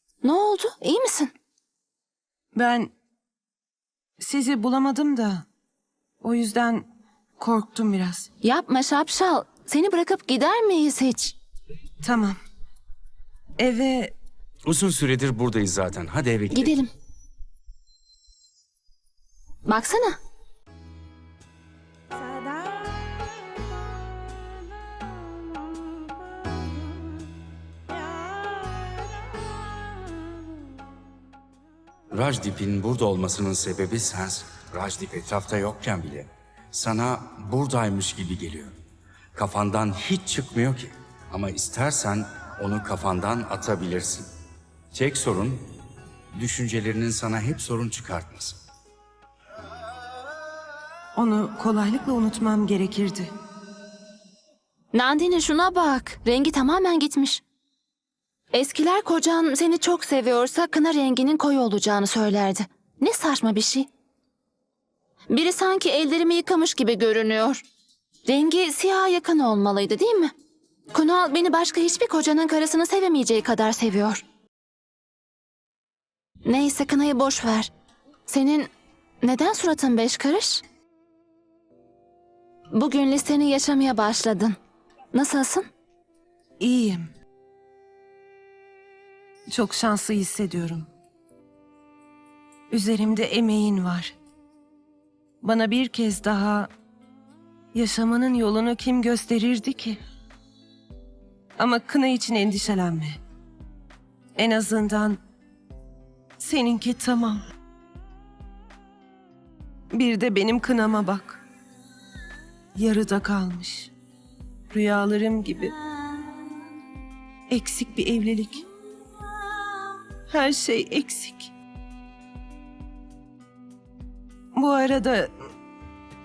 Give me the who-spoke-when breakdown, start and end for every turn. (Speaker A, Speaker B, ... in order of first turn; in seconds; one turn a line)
Speaker A: 0.2-1.3
Speaker B: 2.6-2.9
Speaker B: 4.2-5.4
Speaker B: 6.2-6.8
Speaker B: 7.4-8.2
Speaker A: 8.4-11.3
Speaker B: 12.0-12.3
Speaker B: 13.6-14.1
Speaker C: 14.7-16.7
Speaker A: 16.5-16.9
Speaker A: 19.7-20.2
Speaker C: 32.1-38.7
Speaker C: 39.3-44.3
Speaker C: 44.9-45.6
Speaker C: 46.4-48.6
Speaker B: 51.2-53.2
Speaker A: 54.9-57.4
Speaker A: 58.5-63.9
Speaker A: 65.3-67.6
Speaker A: 68.2-70.3
Speaker A: 70.9-74.2
Speaker A: 76.4-77.7
Speaker A: 78.2-78.7
Speaker A: 79.2-80.6
Speaker A: 82.7-84.6
Speaker A: 85.1-85.7
Speaker B: 86.6-87.0
Speaker B: 89.5-90.8
Speaker B: 92.7-94.1
Speaker B: 95.4-96.7
Speaker B: 97.8-100.0
Speaker B: 101.6-103.2
Speaker B: 104.4-105.2
Speaker B: 106.4-107.4
Speaker B: 109.9-111.4
Speaker B: 112.8-113.9
Speaker B: 114.7-115.7
Speaker B: 117.5-118.6
Speaker B: 120.3-121.5
Speaker B: 124.5-125.3